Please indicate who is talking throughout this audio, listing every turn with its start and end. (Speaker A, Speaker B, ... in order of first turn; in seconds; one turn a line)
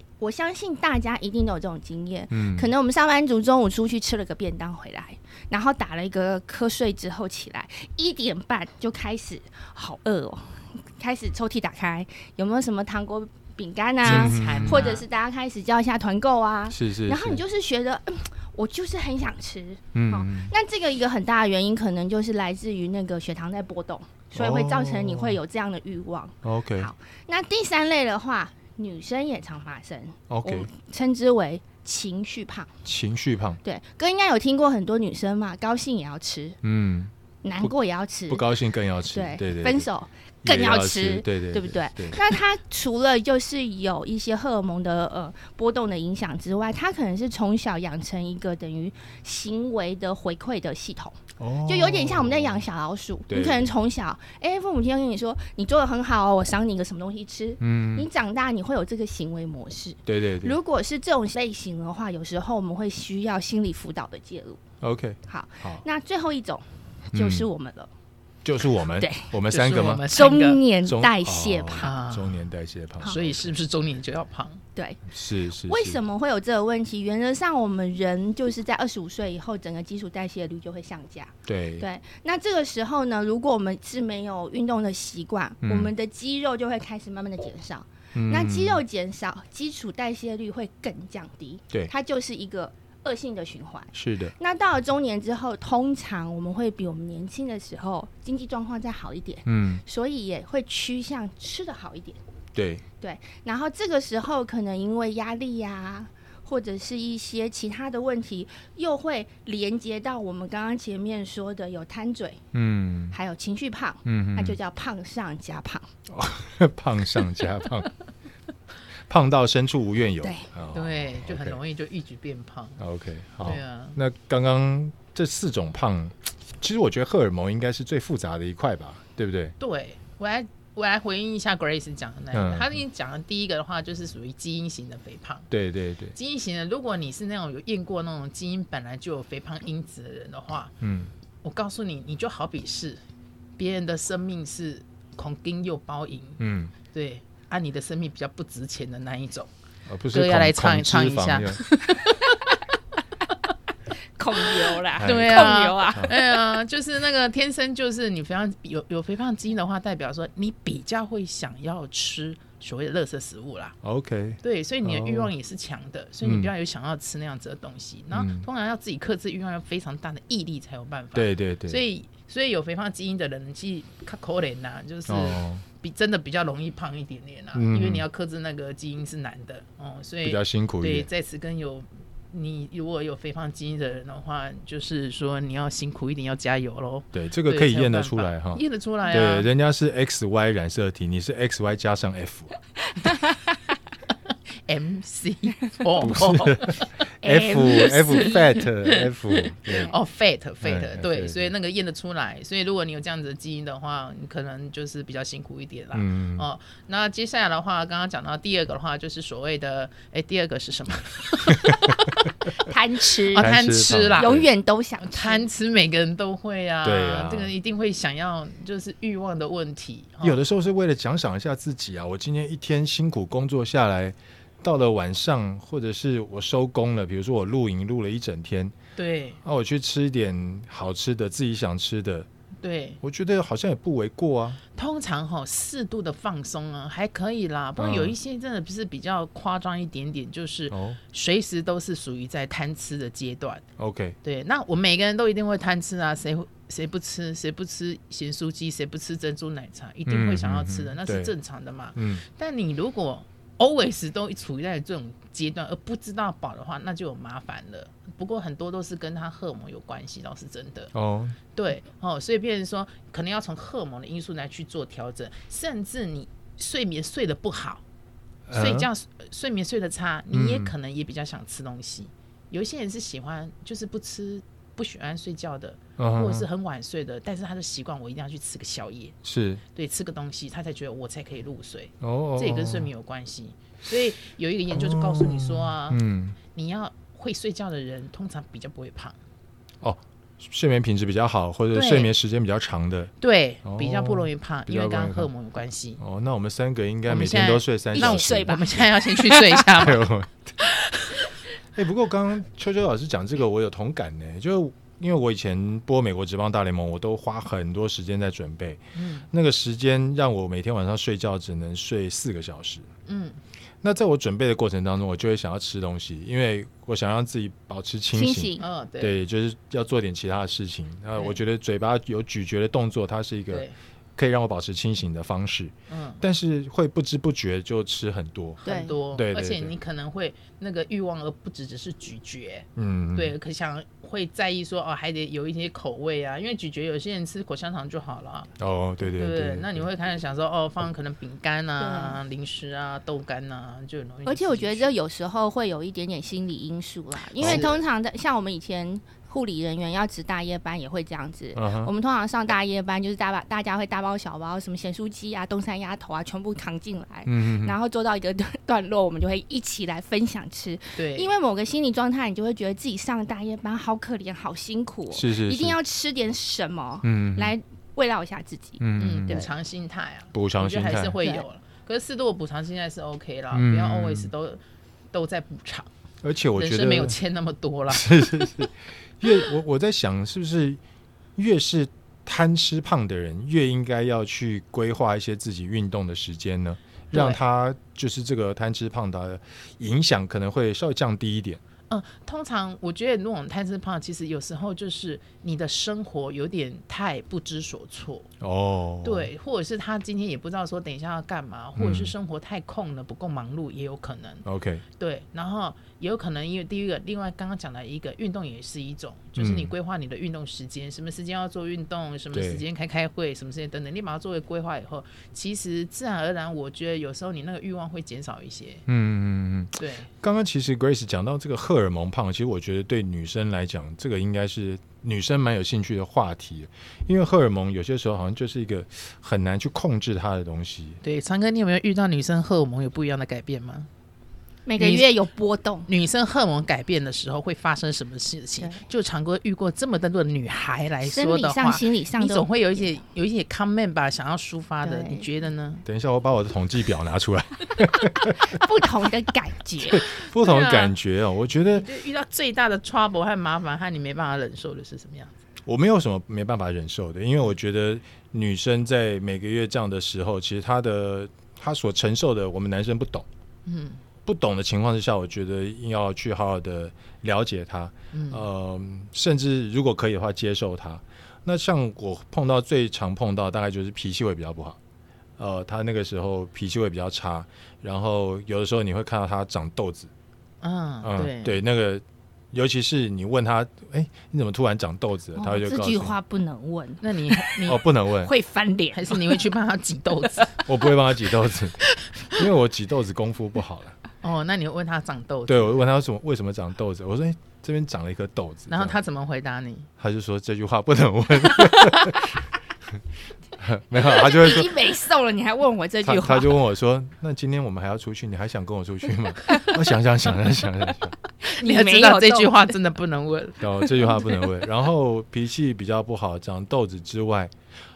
Speaker A: 0.2-32.7
Speaker B: 2.3-2.7
Speaker B: 14.0-14.9
Speaker C: 14.0-15.0
Speaker B: 16.7-17.4
Speaker B: 19.9-20.5
Speaker B: 24.4-25.4
Speaker B: 26.4-26.9
Speaker B: 30.3-30.7
Speaker B: 32.9-33.6
Speaker A: 33.6-36.6
Speaker B: 36.6-37.7
Speaker A: 37.4-38.4
Speaker B: 38.3-39.9
Speaker A: 39.1-64.6
Speaker B: 40.4-42.4
Speaker B: 51.4-52.6
Speaker B: 53.3-53.7
Speaker B: 57.6-58.1
Speaker B: 60.1-60.6
Speaker B: 64.8-65.8
Speaker A: 65.3-67.9
Speaker B: 67.1-67.5
Speaker B: 68.4-70.1
Speaker A: 69.0-69.3
Speaker C: 69.5-70.6
Speaker A: 70.0-72.0
Speaker B: 70.8-73.6
Speaker C: 71.8-72.4
Speaker C: 73.0-74.6
Speaker B: 75.1-76.0
Speaker A: 75.7-102.2
Speaker B: 81.5-81.9
Speaker B: 85.6-85.9
Speaker B: 88.1-88.8
Speaker B: 93.9-94.3
Speaker B: 99.5-99.8
Speaker B: 102.5-102.8
Speaker A: 103.0-112.4
Speaker B: 112.5-113.2
Speaker A: 113.1-115.9
Speaker B: 114.0-114.6
Speaker B: 116.1-117.9
Speaker B: 119.1-121.6
Speaker A: 120.2-120.5
Speaker C: 120.7-122.8
Speaker B: 122.8-129.6
Speaker C: 123.4-124.0
Speaker C: 129.6-135.5
Speaker B: 132.3-132.8
Speaker B: 135.5-136.2
Speaker C: 136.1-140.8
Speaker B: 140.8-141.1
Speaker C: 141.4-143.0
Speaker C: 143.6-146.4
Speaker B: 146.4-146.7
Speaker C: 146.9-149.5
Speaker B: 149.9-151.7
Speaker C: 150.1-152.6
Speaker A: 154.2-156.2
Speaker C: 155.0-163.8
Speaker B: 155.0-156.2
Speaker B: 163.8-165.3
Speaker C: 164.4-189.5
Speaker B: 166.2-166.5
Speaker B: 168.1-168.5
Speaker B: 171.2-171.8
Speaker B: 175.1-175.7
Speaker B: 177.5-178.1
Speaker B: 180.2-181.1
Speaker B: 187.1-192.5
Speaker A: 192.9-193.6
Speaker C: 194.7-196.9
Speaker B: 196.0-199.9
Speaker A: 197.2-198.6
Speaker C: 198.8-199.1
Speaker C: 199.7-212.3
Speaker A: 199.7-199.9
Speaker B: 200.6-201.5
Speaker B: 205.9-206.5
Speaker B: 211.5-211.9
Speaker A: 212.6-213.5
Speaker C: 213.3-214.4
Speaker B: 213.4-214.5
Speaker A: 214.1-215.5
Speaker C: 215.0-220.4
Speaker B: 216.8-217.5
Speaker B: 220.2-228.7
Speaker C: 229.0-229.4
Speaker B: 229.4-232.3
Speaker C: 232.6-233.0
Speaker B: 233.0-234.6
Speaker C: 234.8-243.7
Speaker B: 237.8-238.2
Speaker B: 240.7-241.0
Speaker B: 243.8-244.2
Speaker C: 244.2-260.9
Speaker B: 250.1-251.3
Speaker B: 251.9-252.2
Speaker B: 260.9-261.4
Speaker C: 261.6-267.8
Speaker B: 268.5-268.9
Speaker C: 268.5-279.1
Speaker B: 270.3-270.7
Speaker B: 276.0-276.5
Speaker B: 279.2-279.6
Speaker C: 279.8-286.0
Speaker B: 282.0-282.9
Speaker B: 284.7-286.4
Speaker C: 286.5-289.2
Speaker B: 289.8-293.1
Speaker C: 291.7-292.1
Speaker C: 293.2-296.0
Speaker B: 293.6-295.3
Speaker B: 296.0-298.9
Speaker C: 297.1-300.1
Speaker A: 297.9-299.8
Speaker B: 299.8-300.6
Speaker B: 301.7-312.9
Speaker C: 309.0-309.3
Speaker C: 313.1-313.4
Speaker B: 313.8-328.6
Speaker A: 318.1-318.6
Speaker C: 318.6-319.2
Speaker C: 325.9-326.2
Speaker C: 328.6-338.5
Speaker A: 328.6-329.0
Speaker B: 329.1-329.7
Speaker B: 332.8-333.4
Speaker B: 338.6-339.9
Speaker C: 339.1-344.9
Speaker A: 341.8-342.2
Speaker A: 344.3-369.5
Speaker B: 347.4-347.7
Speaker C: 347.4-347.8
Speaker B: 351.6-351.9
Speaker B: 357.3-357.8
Speaker C: 361.0-361.3
Speaker B: 365.1-365.8
Speaker B: 367.0-367.5
Speaker B: 368.8-369.4
Speaker C: 369.0-374.6
Speaker B: 370.3-371.2
Speaker B: 373.5-374.3
Speaker C: 375.1-375.9
Speaker B: 376.2-377.2
Speaker C: 376.6-378.7
Speaker B: 377.9-380.8
Speaker B: 381.4-391.6
Speaker C: 387.1-387.4
Speaker C: 391.9-398.3
Speaker B: 398.4-399.3
Speaker C: 399.0-404.5
Speaker B: 401.8-402.1
Speaker B: 404.4-404.8
Speaker C: 405.0-418.9
Speaker B: 409.4-409.7
Speaker B: 412.3-412.6
Speaker B: 418.9-431.0
Speaker C: 419.8-420.1
Speaker C: 431.0-433.9
Speaker A: 434.7-435.9
Speaker C: 434.8-435.1
Speaker C: 435.9-445.8
Speaker A: 441.0-443.0
Speaker A: 444.8-445.3
Speaker B: 445.9-448.6
Speaker A: 448.4-450.1
Speaker B: 449.9-451.9
Speaker C: 450.2-450.9
Speaker C: 451.6-455.3
Speaker B: 455.7-463.3
Speaker C: 463.7-464.0
Speaker B: 464.3-474.8
Speaker C: 468.1-468.4
Speaker B: 475.4-480.1
Speaker C: 480.6-481.6
Speaker B: 481.0-486.1
Speaker A: 485.4-489.4
Speaker C: 487.0-487.8
Speaker B: 487.7-488.3
Speaker C: 488.9-490.8
Speaker B: 490.7-494.0
Speaker C: 491.9-492.5
Speaker C: 494.2-495.8
Speaker B: 495.5-499.0
Speaker C: 498.7-499.9
Speaker B: 500.0-503.0
Speaker B: 503.6-504.7
Speaker A: 504.0-506.6
Speaker B: 506.0-511.2
Speaker A: 511.4-512.7
Speaker C: 511.6-513.7
Speaker B: 513.6-517.5
Speaker A: 514.2-514.5